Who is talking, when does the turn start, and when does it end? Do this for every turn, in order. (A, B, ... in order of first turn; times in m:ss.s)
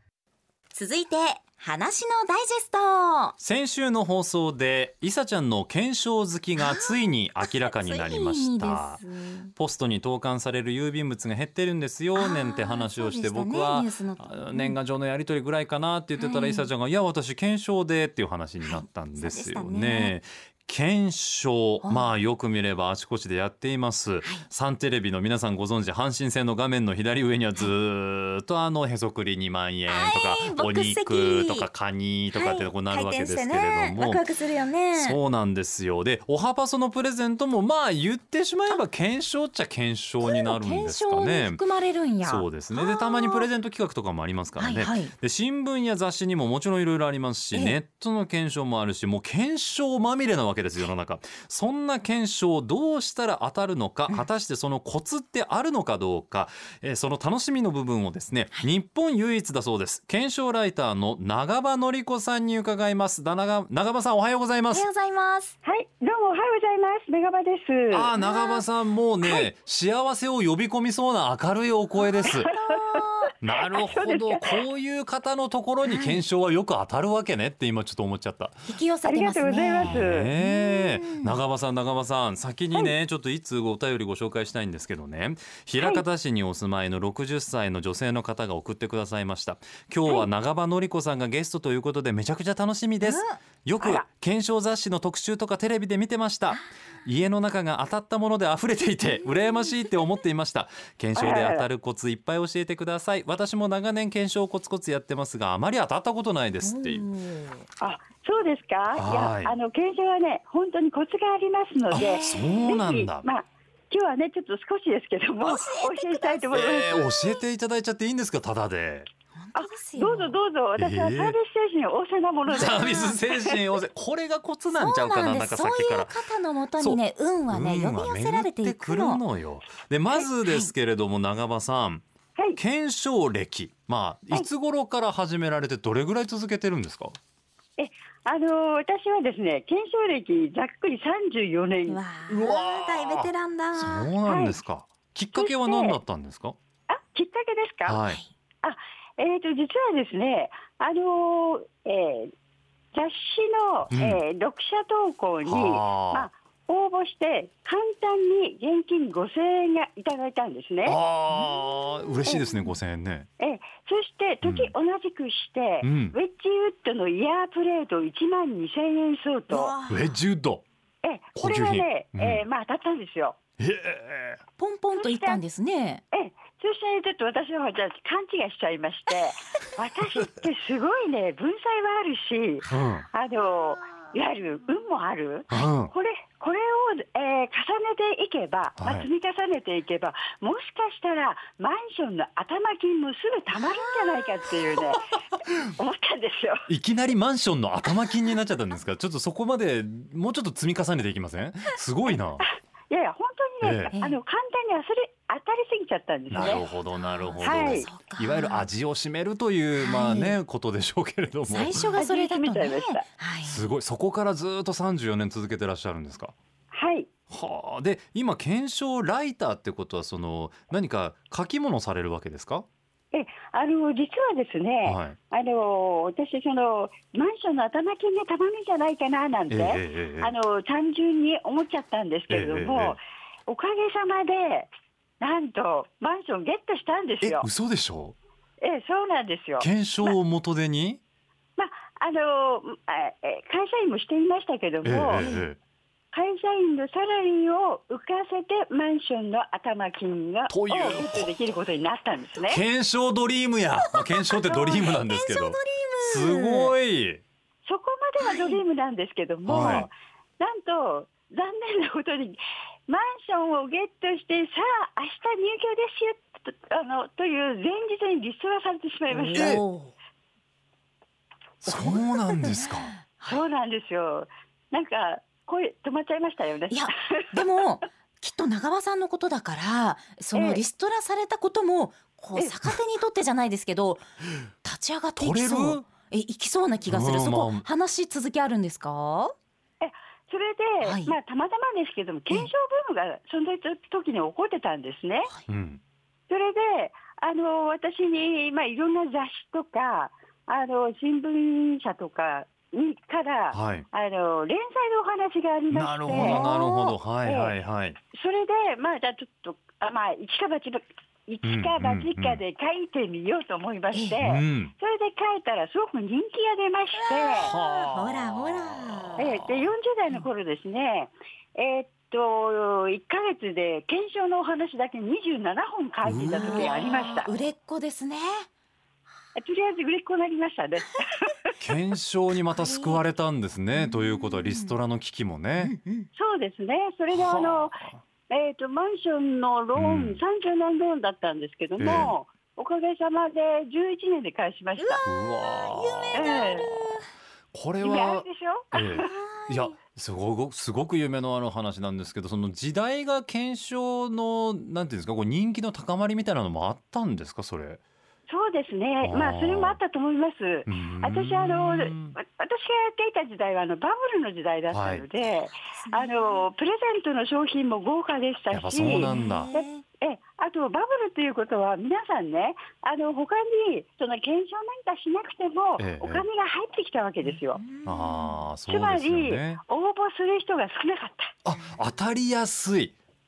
0:00.7-0:03.3 A
0:03.4-0:09.0 B
0:06.6-0:09.5 A
0:09.6-0:34.2 B
0:12.1-0:14.8 A
0:16.2-0:16.7 A
0:18.6-0:20.1 A
0:29.9-0:31.7 A
0:32.3-0:35.2 A
0:34.9-0:41.6 B
0:40.2-0:43.5 A
0:42.2-1:04.8 B
0:44.6-0:45.1 A
1:04.7-1:05.6 A
1:05.6-1:08.1 C
1:07.9-1:12.5 B
1:08.2-1:08.6 A
1:12.0-1:13.3 A
1:12.3-1:13.0 C
1:13.4-1:18.7 B
1:13.7-1:14.5 C
1:15.8-1:16.2 A
1:18.7-1:21.4 A
1:19.0-1:20.3 C
1:19.8-1:47.0 B
1:33.0-1:33.4 A
1:33.8-1:34.0 C
1:39.0-1:39.8 A
1:41.2-1:41.6 C
1:46.6-1:47.6 A
1:47.8-1:57.1 C
1:49.0-1:49.5 B
1:51.9-1:52.7 A
1:51.9-1:53.3 B
1:55.4-1:57.3 A
1:56.5-1:59.1 B
1:59.3-2:00.3 A
1:59.5-2:03.5 C
2:00.8-2:01.4 B
2:02.5-2:03.2 A
2:02.5-2:06.1 B
2:04.7-2:09.2 A
2:06.8-2:12.0 B
2:10.4-2:10.7 A
2:12.6-2:17.2 B
2:17.8-2:22.0 C
2:21.9-2:24.1 A
2:22.3-2:26.6 B
2:24.3-2:24.6 C
2:25.3-2:26.0 C
2:26.9-2:28.0 C
2:27.8-2:28.2 B
2:28.6-2:32.3 C
2:32.9-2:41.0 C
2:33.9-2:34.2 B
2:35.4-2:36.3 B
2:40.8-2:43.3 B
2:43.4-2:49.7 C
2:44.4-2:44.7 B
2:45.8-2:46.2 B
2:49.5-2:50.2 A
2:49.9-2:50.6 B
2:51.0-2:53.4 C
2:51.4-2:52.4 B
2:53.6-2:54.4 B
2:54.6-2:56.0 A
2:55.0-2:55.4 C
2:56.1-3:15.1 C
3:02.7-3:03.0 B
3:05.5-3:05.9 B
3:08.8-3:09.1 B
3:15.7-3:16.6 C
3:16.7-3:22.4 B
3:22.9-3:26.6 C
3:23.6-3:23.9 B
3:23.9-3:24.2 A
3:26.3-3:31.9 B
3:26.4-3:28.7 A
3:27.4-3:27.9 C
3:29.8-3:30.4 A
3:31.5-3:33.7 A
3:32.0-3:33.0 C
3:33.4-3:36.3 B
3:36.7-3:37.1 C
3:37.3-3:42.6 B
3:43.1-3:57.5 C
3:44.8-3:45.2 B
3:49.5-3:50.3 B
3:52.3-3:53.0 B
3:57.2-3:58.1 B
3:58.6-4:00.1 C
3:59.6-4:01.0 B
4:01.6-4:05.2 C
4:04.8-4:05.6 B
4:05.2-4:05.4 A
4:06.1-4:12.6 C
4:10.5-4:11.3 B
4:12.4-4:17.2 B
4:13.9-4:16.7 A
4:17.6-4:29.6 C
4:18.2-4:18.6 A
4:19.4-4:19.9 B
4:29.1-4:29.9 A
4:29.3-4:29.6 B
4:31.6-4:32.9 B
4:31.7-4:33.4 A
4:33.2-4:37.6 C
4:36.7-4:44.0 A
4:40.3-4:40.6 C
4:44.6-4:49.3 A
4:45.2-4:45.8 B
4:46.9-4:47.6 B
4:49.8-4:55.3 C
4:50.8-4:51.1 A
4:55.5-4:55.8 B
4:56.3-5:06.5 C
5:03.5-5:03.9 B
5:05.7-5:08.0 B
5:06.1-5:07.0 A
5:07.2-5:07.5 C
5:08.1-5:17.5 C
5:11.4-5:12.4 B
5:13.9-5:14.2 A
5:14.2-5:14.7 B
5:17.0-5:19.2 A
5:17.4-5:19.6 B
5:19.2-5:27.3 C
5:26.0-5:26.8 B
5:26.3-5:28.5 A
5:29.3-5:31.3 C
5:31.6-5:35.7 B
5:32.5-5:33.0 A
5:33.7-5:34.8 A
5:35.6-5:36.1 A
5:36.1-5:45.0 C
5:37.1-5:38.0 B
5:39.7-5:40.2 B
5:41.8-5:42.1 B
5:44.8-5:47.0 A
5:45.0-5:46.5 B
5:46.1-5:46.7 C
5:47.5-5:57.8 B
5:47.8-5:49.1 C
5:49.0-5:49.7 A
5:58.3-6:17.6 C
5:59.0-5:59.8 B
6:00.6-6:02.2 B
6:04.7-6:05.0 B
6:05.7-6:06.4 A
6:08.5-6:09.5 B
6:08.8-6:09.8 A
6:15.8-6:16.2 B
6:17.2-6:18.4 A
6:17.8-6:19.6 B
6:18.7-6:21.3 C
6:21.4-6:22.9 B